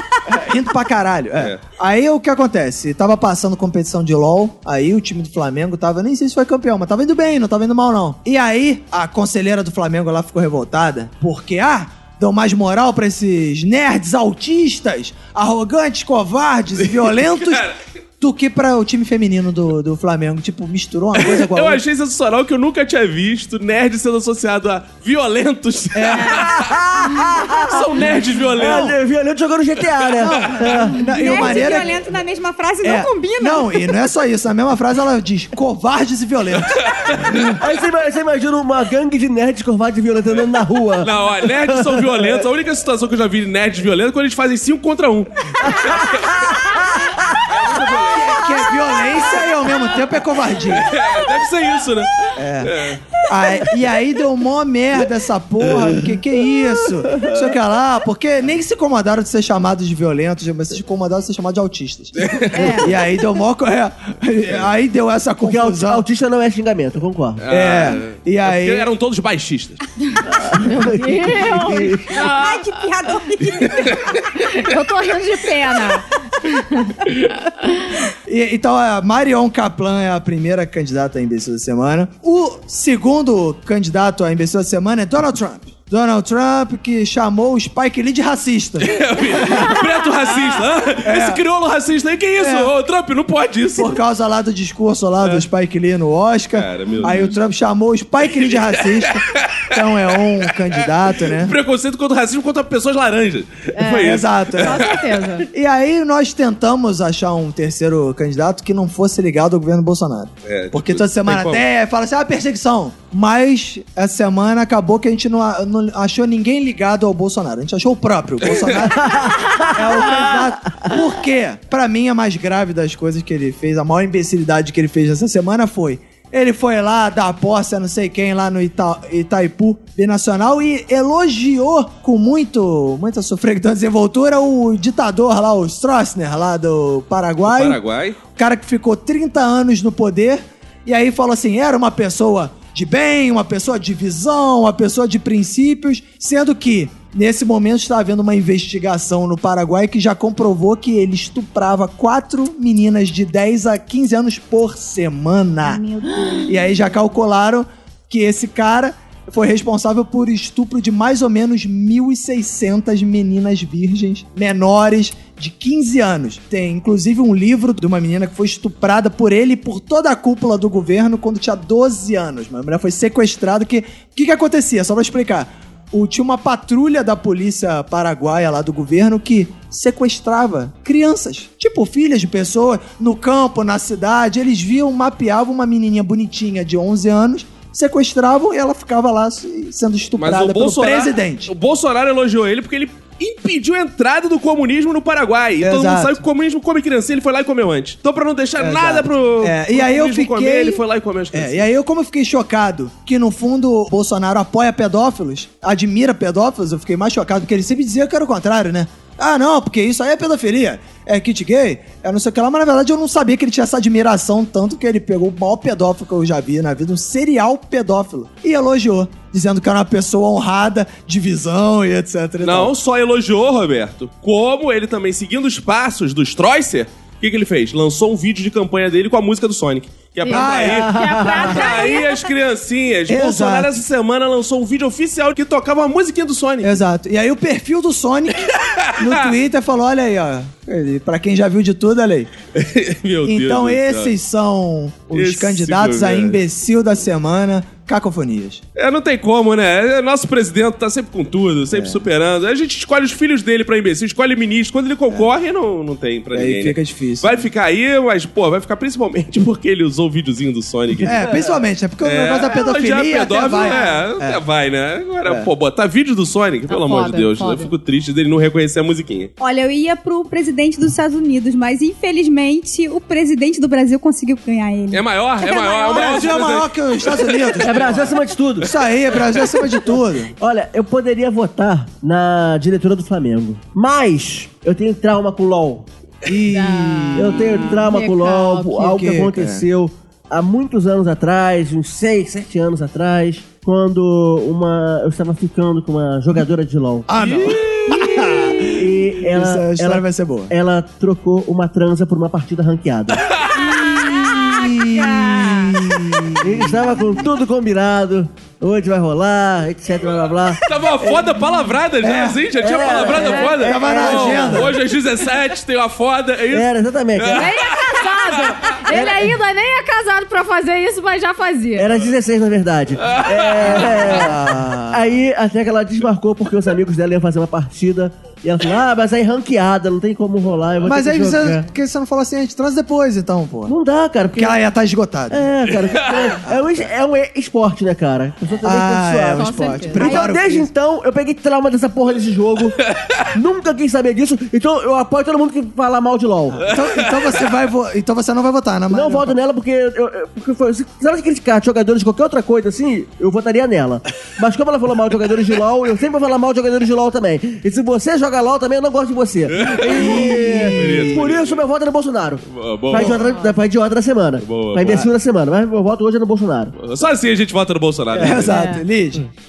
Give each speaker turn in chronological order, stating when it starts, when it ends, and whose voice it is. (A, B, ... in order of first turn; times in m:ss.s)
0:00.3-0:17.6 A
0:16.9-0:17.8 B
0:18.2-0:21.8 A
0:21.2-0:26.7 B
0:25.9-0:26.5 A
0:26.5-0:27.8 C
0:27.6-0:29.0 B
0:28.6-0:31.6 C
0:28.6-0:29.0 A
0:30.2-0:32.0 A
0:30.9-0:34.0 D
0:32.8-0:37.3 A
0:36.8-0:37.5 B
0:37.4-0:42.4 C
0:41.0-0:46.3 B
0:45.6-0:47.4 C
0:47.4-0:48.5 B
0:48.1-0:51.0 A
0:50.8-0:53.0 B
0:52.4-1:06.1 A
0:55.8-0:57.4 C
1:02.2-1:02.8 B
1:02.5-1:02.9 E
1:05.4-1:07.4 C
1:07.4-1:09.8 B
1:07.5-1:08.9 A
1:10.3-1:12.1 C
1:10.6-1:12.0 E
1:11.7-1:14.2 D
1:13.7-1:14.0 B
1:14.5-1:17.0 E
1:18.3-1:29.7 A
1:28.8-1:34.0 B
1:31.0-1:31.4 A
1:32.4-1:32.7 A
1:33.8-1:41.6 A
1:36.5-1:37.4 B
1:38.8-1:39.8 B
1:40.8-1:45.0 B
1:43.8-1:45.5 E
1:44.0-1:44.9 A
1:45.5-2:17.8 A
1:50.5-1:51.6 B
1:58.4-1:58.9 B
1:59.0-1:59.7 C
2:17.5-2:18.2 B
2:18.3-2:35.8 A
2:35.6-2:36.9 D
2:36.4-3:11.5 A
3:10.2-3:21.7 B
3:15.6-3:16.2 A
3:18.6-3:42.7 A
3:42.4-3:56.8 B
3:50.2-3:52.2 E
3:50.3-3:51.2 A
3:50.9-3:51.5 C
3:53.1-3:53.7 A
3:56.6-4:02.3 A
3:58.5-3:59.3 B
4:02.6-4:04.2 B
4:03.2-4:08.6 A
4:05.1-4:06.4 B
4:08.8-4:21.2 B
4:11.7-4:12.0 A
4:16.3-4:17.5 A
4:21.0-4:21.6 C
4:21.0-4:24.4 A
4:22.0-4:29.3 B
4:23.3-4:24.0 E
4:25.2-4:25.5 A
4:26.7-4:27.7 E
4:29.4-4:36.2 D
4:34.9-4:38.1 B
4:35.9-4:40.3 A
4:37.6-4:38.7 C
4:40.4-4:45.9 C
4:46.2-4:47.8 A
4:46.5-4:48.9 E
4:47.2-4:57.1 C
4:48.8-4:49.7 A
4:57.1-5:00.5 A
4:57.2-4:57.6 B
4:58.6-5:03.2 C
5:03.3-5:03.7 B
5:03.8-5:05.7 E
5:03.8-5:07.0 A
5:06.4-5:11.3 C
5:10.6-5:18.8 B
5:12.0-5:12.4 A
5:12.6-5:14.7 C
5:13.3-5:14.8 A
5:16.5-5:17.5 C
5:17.3-5:21.9 E
5:18.9-5:19.4 C
5:21.8-5:31.7 C
5:23.1-5:24.3 B
5:23.6-5:25.1 A
5:30.8-5:33.8 A
5:33.7-5:34.6 C
5:34.3-5:35.5 A
5:35.3-5:42.8 C
5:35.9-5:36.3 B
5:36.4-5:36.9 A
5:38.6-5:40.7 A
5:39.4-5:40.2 E
5:42.9-5:43.3 B
5:43.3-5:46.7 C
5:46.6-5:49.4 A
5:46.7-5:47.5 B
5:48.9-6:06.8 C
5:59.5-6:01.6 B
5:59.8-6:01.3 A
6:02.5-6:03.2 B
6:03.2-6:03.5 E
6:04.4-6:05.1 B
6:04.8-6:05.1 A
6:06.8-6:08.5 B
6:08.2-6:09.3 A
6:08.5-6:08.8 E